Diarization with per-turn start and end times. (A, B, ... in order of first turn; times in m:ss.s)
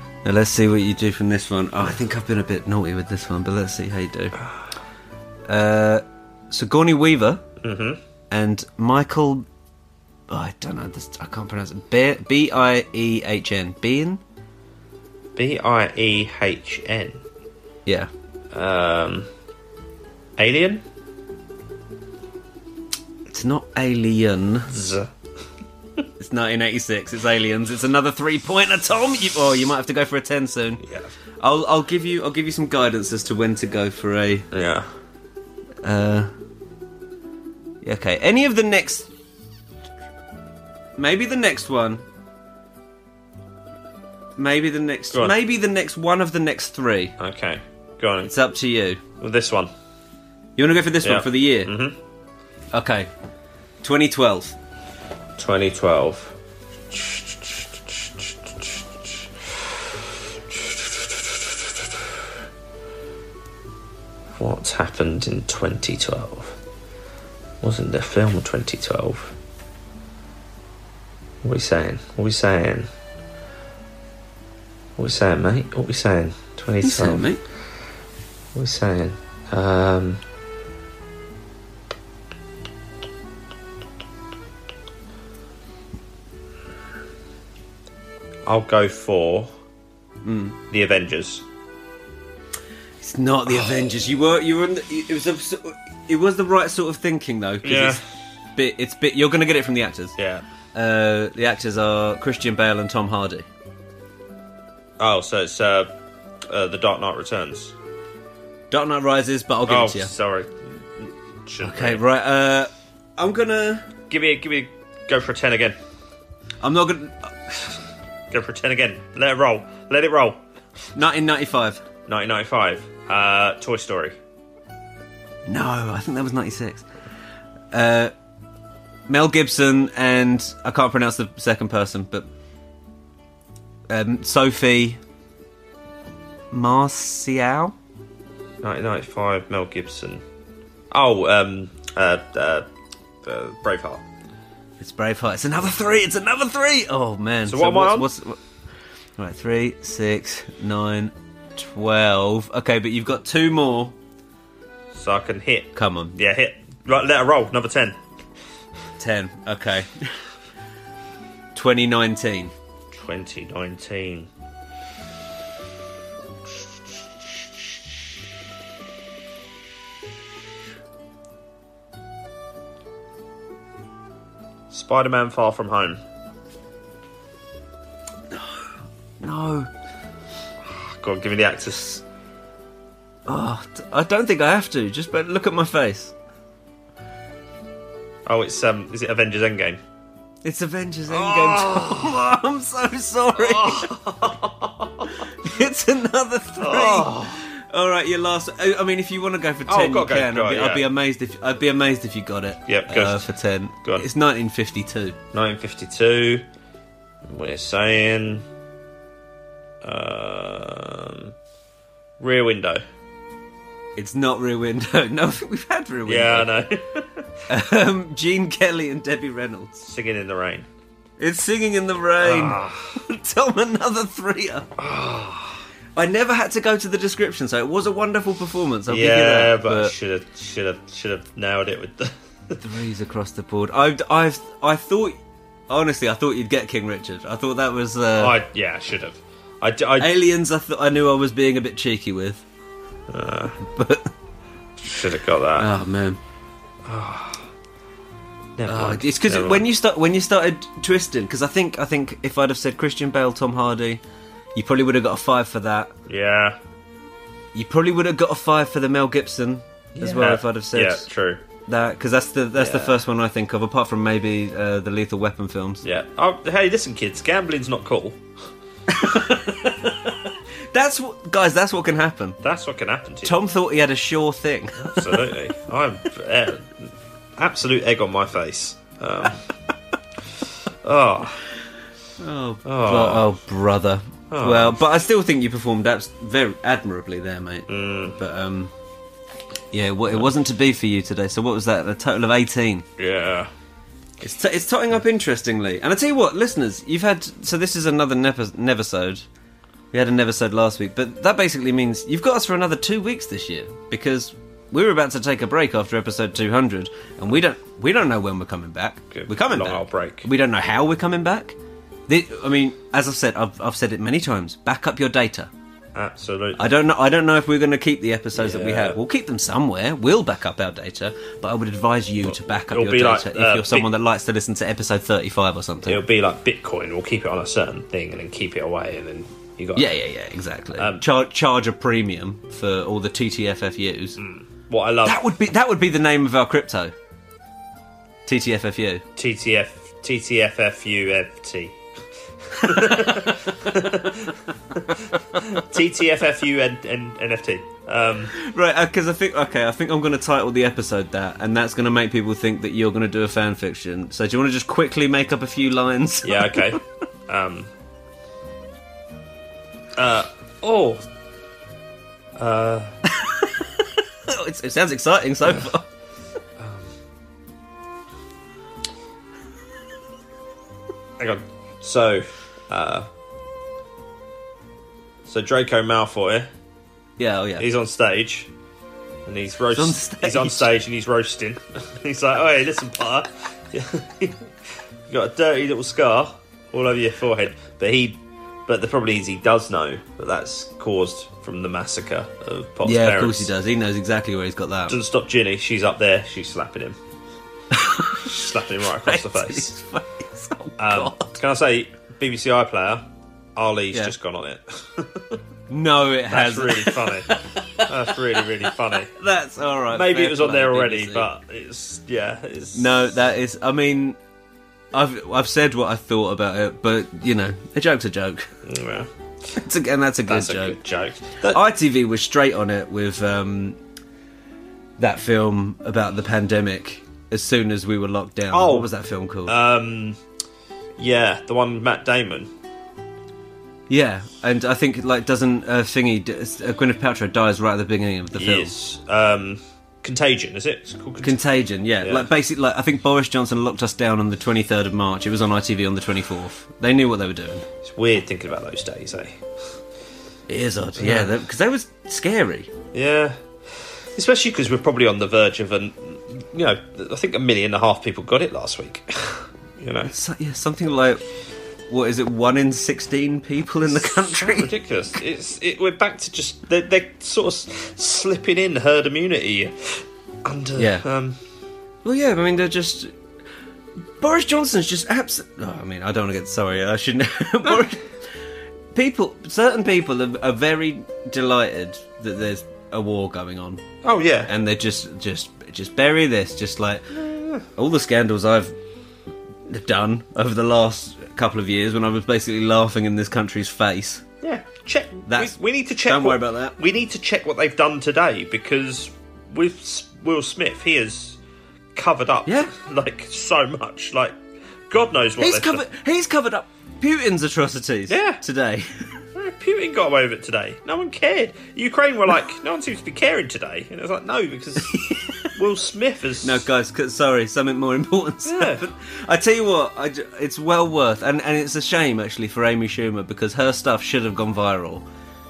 0:00.2-0:04.4 A
0:05.5-0:07.4 A
0:07.6-0:08.0 B
0:08.3-0:09.5 A
0:10.3-0:14.2 A
0:15.4-0:17.2 B
0:18.5-0:19.3 B
0:20.4-0:20.8 B
0:23.3-0:24.7 A
0:24.7-0:25.1 B
0:26.2-0:30.8 A
0:30.8-0:31.1 B
0:31.4-0:34.5 A
0:34.5-0:34.9 B
0:35.8-0:36.3 A
0:37.8-0:39.1 A
0:41.0-0:42.0 A
0:44.4-0:47.1 A
0:47.2-0:48.3 B
0:48.2-0:49.0 A
0:49.2-0:49.7 B
0:50.6-0:51.7 A
0:51.0-0:52.0 B
0:52.7-0:53.1 A
0:53.8-0:54.6 A
0:55.4-0:56.4 B
0:56.9-0:57.6 B
1:01.0-1:01.3 B
1:04.4-1:06.6 B
1:07.6-1:09.4 B
1:11.4-1:12.9 B
1:15.0-1:17.3 B
1:16.8-1:17.4 A
1:18.6-1:20.2 B
1:28.5-1:29.5 B
1:30.2-1:30.6 A
1:30.7-1:31.4 B
1:33.0-1:38.0 A
1:33.5-1:33.8 B
1:37.6-1:38.0 B
1:38.6-1:40.2 A
1:40.2-1:40.4 B
1:40.7-1:43.5 A
1:45.0-1:45.9 B
1:46.5-1:47.7 B
1:48.7-1:50.1 A
1:49.7-1:52.0 B
1:51.6-1:53.9 A
1:54.1-1:55.8 B
1:56.6-1:57.5 A
1:58.3-2:00.4 B
2:01.0-2:01.8 A
2:02.1-2:04.2 B
2:05.5-2:06.9 A
2:07.7-2:08.1 A
2:09.1-2:12.3 A
2:13.9-2:15.0 A
2:16.5-2:17.8 A
2:18.6-2:20.2 B
2:20.9-2:22.7 B
2:23.2-2:24.0 B
2:24.8-2:28.4 A
2:27.5-2:28.1 B
2:29.2-2:34.0 A
2:34.9-2:38.0 B
2:35.7-2:36.2 A
2:39.0-2:40.2 A
2:41.6-2:42.5 A
2:42.9-2:44.3 B
2:54.7-2:56.0 B
2:59.2-2:59.7 A
3:00.7-3:02.0 B
3:03.3-3:06.1 A
3:08.3-3:09.8 B
3:10.4-3:13.9 A
3:11.1-3:12.2 B
3:13.4-3:15.3 B
3:15.3-3:25.2 A
3:16.6-3:17.3 B
3:19.7-3:20.9 B
3:22.7-3:23.3 B
3:25.3-3:26.5 B
3:27.3-3:28.4 B
3:29.8-3:31.3 B
3:32.2-3:32.8 B
3:34.0-3:36.6 A
3:36.1-3:37.2 B
3:37.5-3:39.8 A
3:39.8-3:40.7 B
3:41.2-3:44.7 A
3:42.2-3:42.9 B
3:44.8-3:45.6 B
3:46.0-3:49.9 A
3:48.9-3:52.6 B
3:52.6-3:55.2 A
3:55.7-3:58.4 A
3:58.2-4:00.1 B
4:00.0-4:02.4 A
4:03.1-4:03.6 B
4:03.6-4:04.1 A
4:04.8-4:05.7 B
4:05.6-4:06.2 A
4:06.9-4:07.5 B
4:08.6-4:09.7 B
4:08.7-4:14.0 A
4:14.6-4:15.9 A
4:16.1-4:16.6 B
4:17.5-4:21.1 A
4:20.0-4:21.4 B
4:21.7-4:25.8 A
4:22.6-4:23.0 B
4:25.8-4:28.2 B
4:28.9-4:30.2 A
4:29.2-4:29.6 B
4:30.7-4:32.4 A
4:32.4-4:33.4 B
4:33.2-4:35.2 A
4:34.8-4:39.4 B
4:40.8-4:41.4 B
4:42.2-4:48.7 A
4:42.6-4:43.2 B
4:44.3-4:44.8 B
4:47.7-4:48.2 B
4:49.7-4:52.9 A
4:53.0-4:53.5 B
4:54.2-4:59.2 A
4:59.9-5:11.6 A
5:09.1-5:10.3 B
5:12.1-5:15.5 A
5:16.0-5:16.7 B
5:16.6-5:26.0 A
5:18.4-5:19.0 B
5:22.2-5:23.9 B
5:25.9-5:29.9 B
5:29.8-5:34.2 A
5:30.8-5:31.0 B
5:34.2-5:35.2 B
5:35.1-5:36.9 A
5:38.3-5:39.0 A
5:39.2-5:41.8 B
5:42.5-5:48.3 B
5:48.3-5:56.8 A
5:56.2-5:57.7 B
6:00.0-6:01.0 B
6:02.4-6:03.0 B
6:03.1-6:05.9 A
6:06.6-6:06.9 B
6:11.2-6:13.1 B
6:15.3-6:16.5 B
6:17.2-6:17.6 A
6:17.6-6:18.5 B
6:19.3-6:24.5 B
6:19.7-6:20.7 A
6:25.1-6:33.5 B
6:32.8-6:35.0 A
6:34.9-6:37.0 B
6:37.7-6:38.5 A
6:38.1-6:39.7 B
6:39.0-6:41.4 A
6:40.8-6:43.0 B
6:43.6-6:45.4 B
6:45.7-6:47.4 A
6:46.3-6:49.1 B
6:49.1-6:51.3 A
6:49.9-6:53.2 B
6:52.7-6:54.2 A
6:54.9-6:58.5 A
6:58.7-6:59.1 B
6:59.6-7:00.8 A
7:00.3-7:01.6 B
7:01.4-7:03.8 A
7:05.0-7:09.6 A
7:08.5-7:08.9 B
7:09.5-7:10.2 B
7:11.0-7:12.5 B
7:13.9-7:18.7 A
7:18.3-7:21.4 B
7:21.2-7:27.6 A
7:22.0-7:22.3 B
7:27.8-7:29.4 B
7:30.5-7:32.7 A
7:31.0-7:31.3 B
7:32.9-7:40.1 B
7:40.1-7:41.2 A
7:41.9-7:44.7 A
7:43.9-7:51.4 B
7:50.8-7:51.0 A
7:52.0-7:53.1 A
7:54.2-7:58.3 A
7:58.9-8:03.8 A
8:04.0-8:04.5 B
8:04.5-8:07.2 A
8:07.2-8:07.6 B
8:07.7-8:08.8 A
8:09.7-8:14.2 A
8:14.4-8:21.4 B
8:15.3-8:16.8 A
8:22.0-8:24.4 B
8:22.5-8:22.7 A
8:24.9-8:25.8 B
8:25.4-8:29.2 A
8:28.1-8:28.4 B
8:29.4-8:36.6 B
8:34.9-8:35.5 A
8:36.4-8:45.0 A
8:38.5-8:38.8 B